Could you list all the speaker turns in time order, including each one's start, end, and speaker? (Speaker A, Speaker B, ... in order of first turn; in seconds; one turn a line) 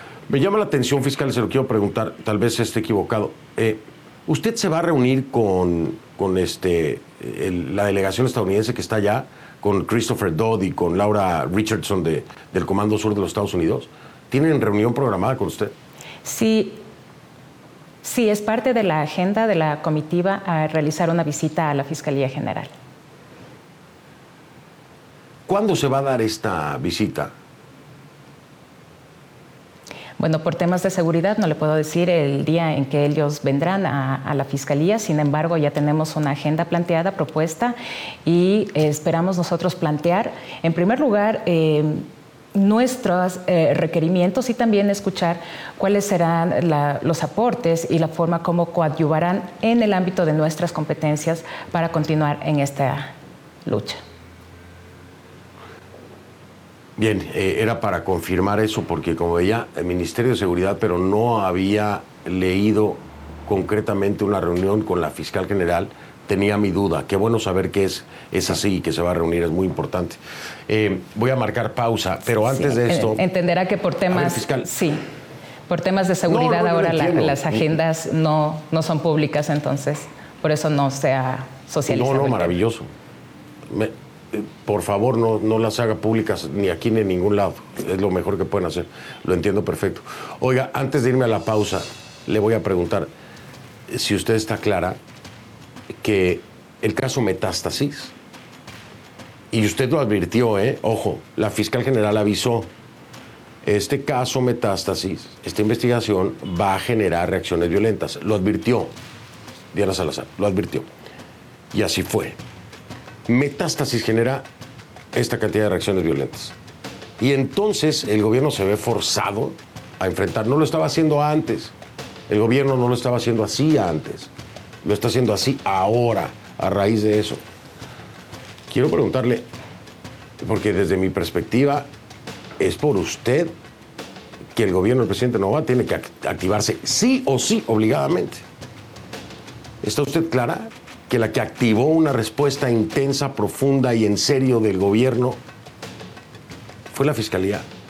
Speaker A: 0.3-15.7
Speaker B: 16.2-16.8
Speaker B: 18.0-22.7
Speaker A: 25.5-27.3
Speaker B: 30.2-53.1
Speaker B: 53.6-54.0
Speaker A: 57.0-73.2
Speaker B: 72.4-75.0
Speaker A: 74.1-74.7
Speaker B: 75.7-82.6
Speaker A: 76.3-77.8
Speaker A: 81.9-82.9
Speaker A: 83.7-93.1
Speaker A: 93.9-95.0
Speaker A: 96.0-98.1
Speaker A: 99.5-102.7
Speaker A: 103.6-108.9
Speaker A: 109.7-110.9
Speaker A: 111.7-112.4
Speaker A: 113.3-114.5
Speaker A: 115.1-116.5
Speaker A: 117.2-121.7
Speaker A: 122.3-124.3
Speaker A: 124.8-127.4
Speaker A: 128.7-129.5
Speaker A: 130.4-131.9
Speaker A: 132.6-133.5
Speaker A: 134.6-138.4
Speaker A: 139.8-145.4
Speaker A: 146.9-147.7